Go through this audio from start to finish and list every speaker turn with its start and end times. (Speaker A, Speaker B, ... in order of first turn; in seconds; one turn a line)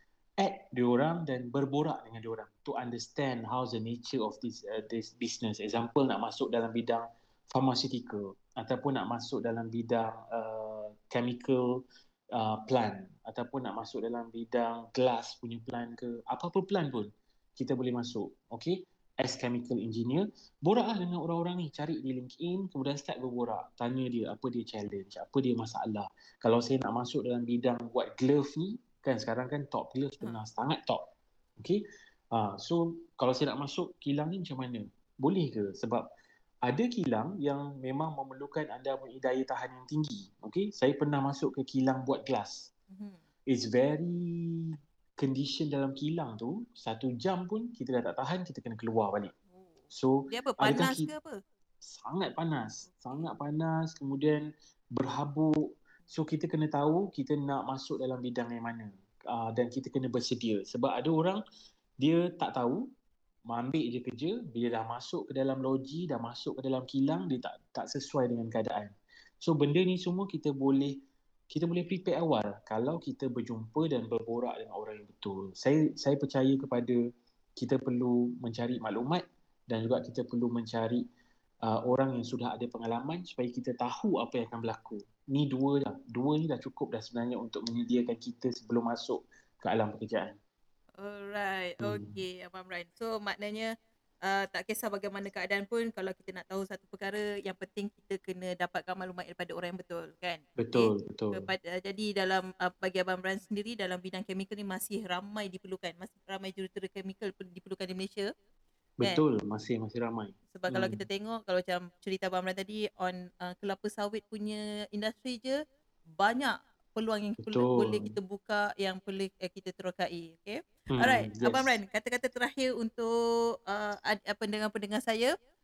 Speaker A: 0.4-36.1
Speaker A: 36.6-42.7
Speaker B: 42.9-43.2
Speaker A: 43.5-49.3
Speaker A: 49.9-51.1
Speaker B: 50.3-51.4
Speaker A: 51.8-55.6
Speaker A: 56.1-61.4
Speaker A: 62.0-62.8
Speaker A: 63.5-77.0
Speaker A: 77.6-81.0
Speaker A: 81.6-90.4
Speaker B: 91.0-93.7
Speaker A: 91.8-92.2
Speaker B: 94.2-108.3
Speaker A: 100.6-101.5
Speaker A: 109.0-111.0
Speaker B: 110.5-115.6
Speaker B: 116.2-123.1
Speaker A: 117.4-118.2
Speaker A: 120.9-121.7
Speaker B: 123.7-125.3